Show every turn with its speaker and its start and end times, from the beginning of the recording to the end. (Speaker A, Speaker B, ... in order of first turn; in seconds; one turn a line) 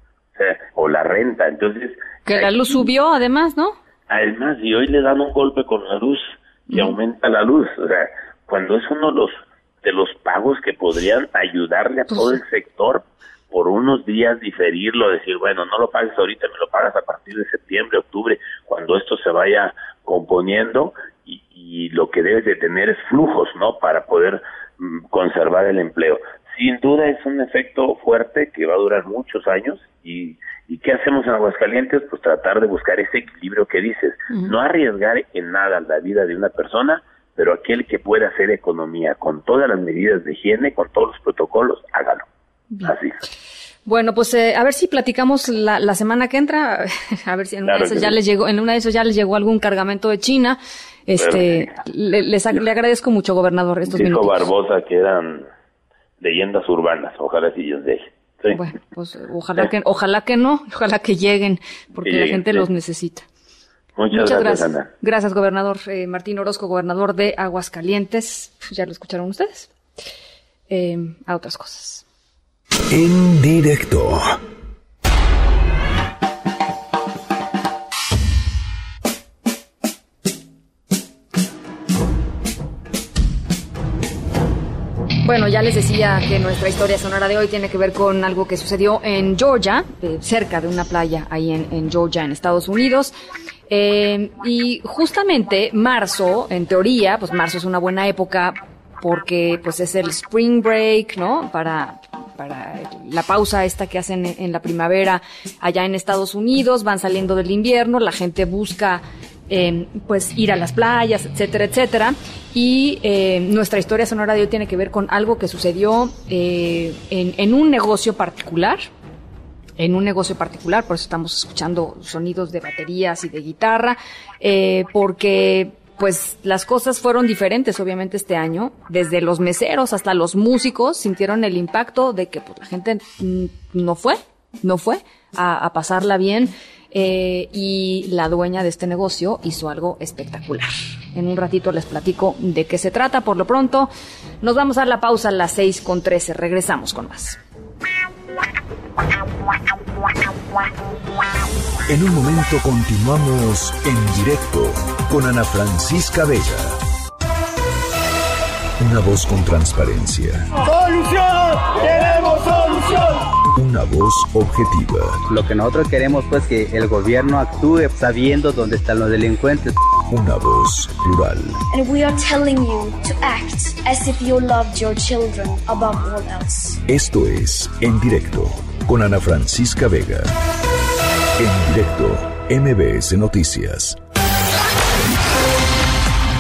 Speaker A: 0.3-2.8
Speaker B: 2.3-3.8
Speaker A: 4.1-42.2
Speaker B: 6.7-7.0
Speaker B: 12.1-12.4
Speaker A: 42.8-43.2
Speaker B: 43.9-54.4
Speaker A: 47.6-48.1
Speaker A: 51.2-51.8
Speaker A: 53.9-55.5
Speaker A: 56.2-58.6
Speaker B: 58.5-63.2
Speaker A: 62.0-62.7
Speaker A: 64.0-64.9
Speaker B: 64.1-69.7
Speaker B: 70.7-72.0
Speaker C: 72.9-74.3
Speaker B: 85.2-93.1
Speaker B: 93.7-118.9
Speaker B: 119.8-143.9
Speaker B: 144.4-147.4
Speaker C: 151.9-156.8
Speaker C: 158.8-160.4
Speaker C: 163.5-165.2
Speaker D: 165.3-169.7
Speaker C: 170.1-171.6
Speaker E: 171.7-176.8
Speaker C: 176.9-180.3
Speaker C: 181.4-184.0